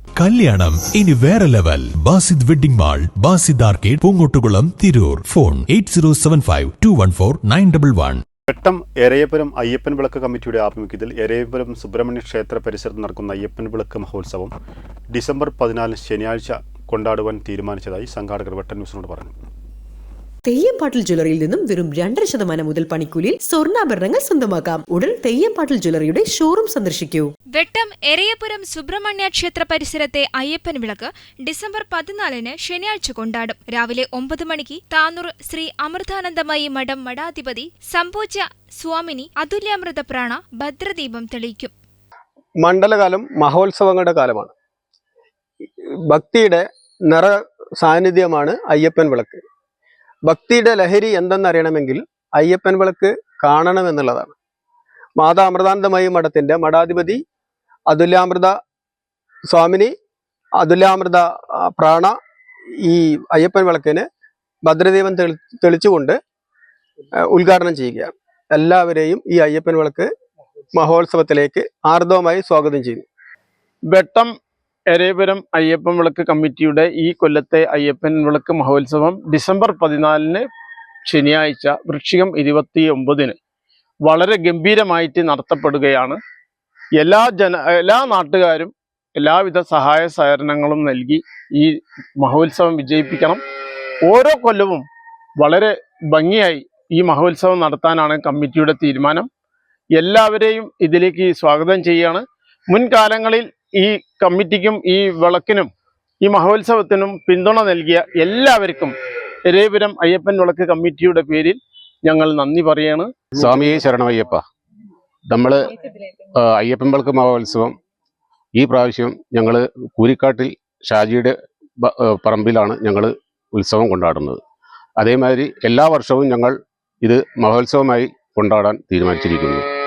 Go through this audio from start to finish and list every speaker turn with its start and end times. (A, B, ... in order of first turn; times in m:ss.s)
0:00.2-0:08.2 A
0:08.5-0:14.5 B
0:15.1-0:19.4 B
0:20.4-0:27.3 C
0:27.5-0:41.7 D
0:42.6-0:44.5 E
0:46.1-0:49.4 E
0:50.3-0:54.3 E
0:55.2-0:57.2 E
0:57.9-0:58.5 E
0:59.5-0:59.9 E
1:00.6-1:02.1 E
1:02.8-1:04.0 E
1:04.6-1:06.2 E
1:07.3-1:10.1 E
1:10.7-1:13.0 E
1:13.9-1:14.3 F
1:14.9-1:20.4 F
1:21.0-1:23.3 F
1:24.0-1:26.2 F
1:27.0-1:33.4 F
1:34.0-1:34.8 F
1:35.4-1:39.3 F
1:40.0-1:45.7 F
1:46.2-1:48.9 F
1:49.4-1:53.1 F
1:53.3-1:54.4 G
1:55.3-1:55.8 G
1:56.3-1:57.8 G
1:58.5-2:04.4 G
2:05.0-2:09.6 G